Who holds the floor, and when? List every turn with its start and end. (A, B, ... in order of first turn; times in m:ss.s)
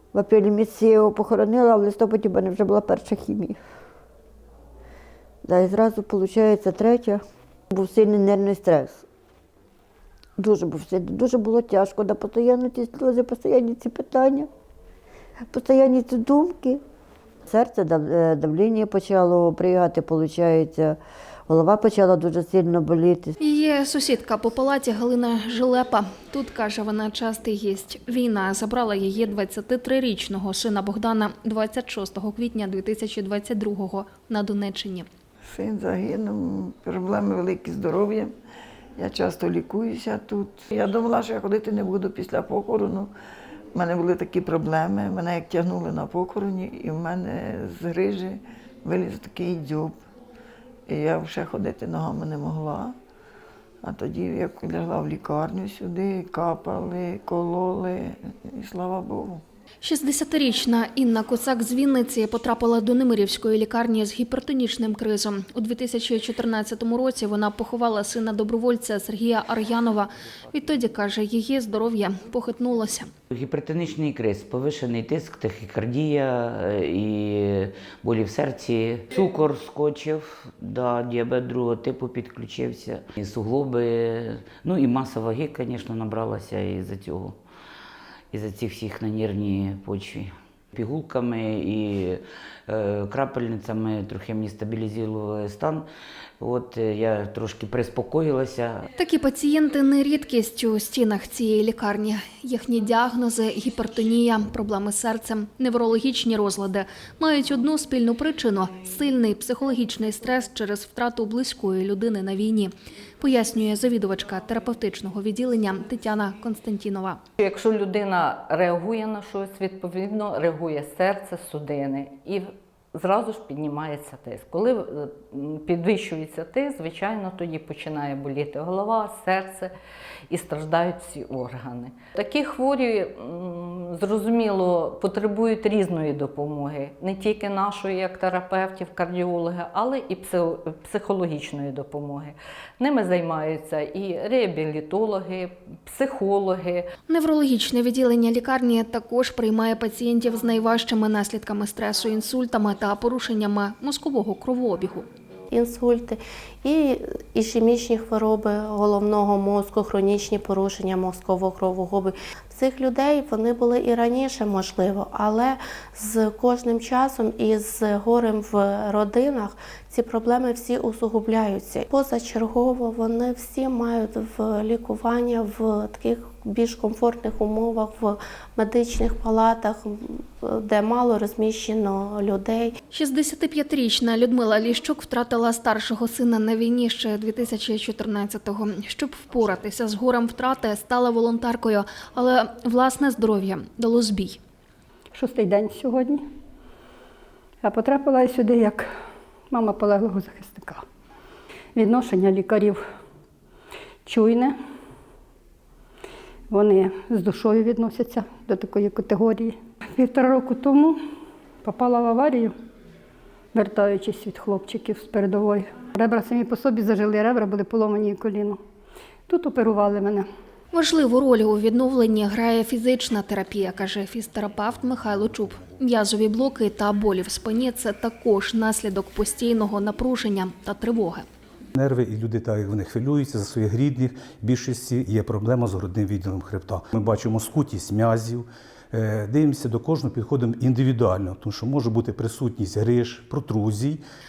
0:00.1-0:03.6 A
0:05.4-0:07.2 A
0:07.7-0:09.0 A
0:10.4-0:14.5 A
0:15.5-0:16.8 A
0:17.5-0:21.0 A
0:21.5-0:23.3 A
0:23.4-0:35.1 B
0:35.5-0:38.3 C
0:39.0-0:43.1 C
0:43.7-0:49.9 C
0:50.9-0:52.9 C
0:53.8-0:59.4 C
0:59.8-1:13.1 B
1:13.3-1:27.4 D
1:28.3-1:35.8 D
1:36.4-1:38.8 D
1:39.0-1:57.2 B
1:57.4-2:09.7 E
2:10.3-2:26.8 E
2:27.1-2:35.0 B
2:35.5-3:02.8 F
3:02.9-3:14.4 B
3:15.1-3:16.2 G
3:17.6-3:18.9 G
3:19.5-3:20.8 G
3:21.8-3:22.8 G
3:24.0-3:24.6 G
3:26.5-3:31.0 G
3:31.6-3:32.5 G
3:33.5-3:38.6 G
3:39.3-3:40.2 G
3:40.7-3:51.2 B
3:51.7-4:04.0 H